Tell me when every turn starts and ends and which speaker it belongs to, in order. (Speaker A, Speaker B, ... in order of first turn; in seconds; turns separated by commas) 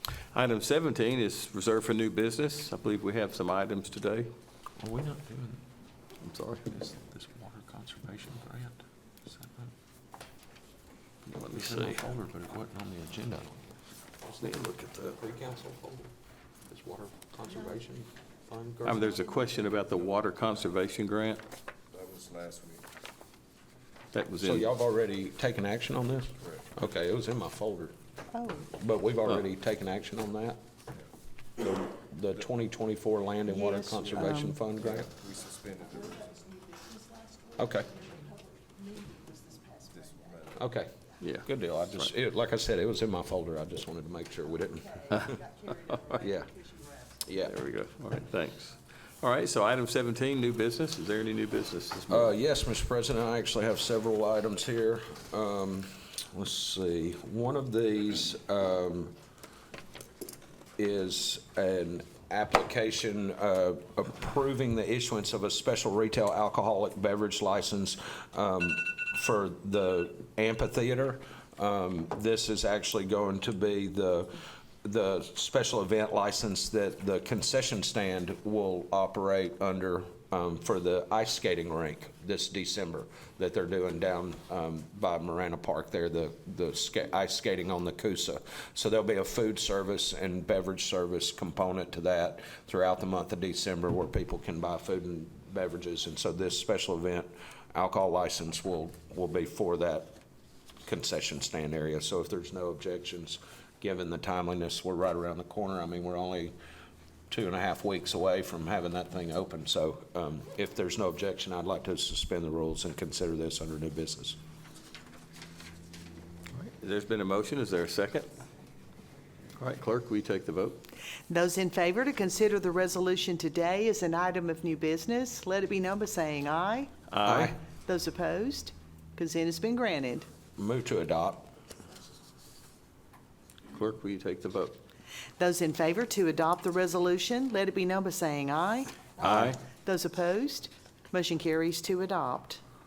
Speaker A: 0.3-4.3, Speaker B: 4.8-5.6, Speaker A: 6.2-6.7, Speaker B: 6.7-9.7, Speaker A: 11.3-12.0, Speaker B: 11.5-13.7, Speaker B: 14.2-16.1, Speaker B: 16.7-19.2, Speaker A: 18.8-21.4, Speaker C: 21.9-22.8, Speaker A: 24.1-24.7, Speaker B: 24.4-27.9, Speaker D: 28.3-28.7, Speaker B: 28.7-30.6, Speaker B: 31.6-35.1, Speaker D: 33.6-34.6, Speaker C: 34.9-36.5, Speaker B: 37.5-38.0, Speaker D: 38.9-39.6, Speaker C: 39.9-40.6, Speaker B: 40.6-40.9, Speaker A: 41.2-41.5, Speaker B: 41.4-45.4, Speaker B: 46.1-46.6, Speaker B: 47.2-47.5, Speaker A: 47.5-52.3, Speaker B: 52.1-59.1, Speaker B: 60.8-100.1, Speaker B: 100.8-106.5, Speaker B: 107.3-114.4, Speaker A: 116.6-118.3, Speaker A: 119.6-120.8, Speaker D: 121.3-126.9, Speaker A: 127.1-127.5, Speaker B: 127.2-127.6, Speaker D: 127.9-130.3, Speaker B: 130.6-131.5, Speaker A: 133.7-134.8, Speaker D: 135.4-142.6, Speaker B: 139.2-139.6, Speaker A: 139.2-139.6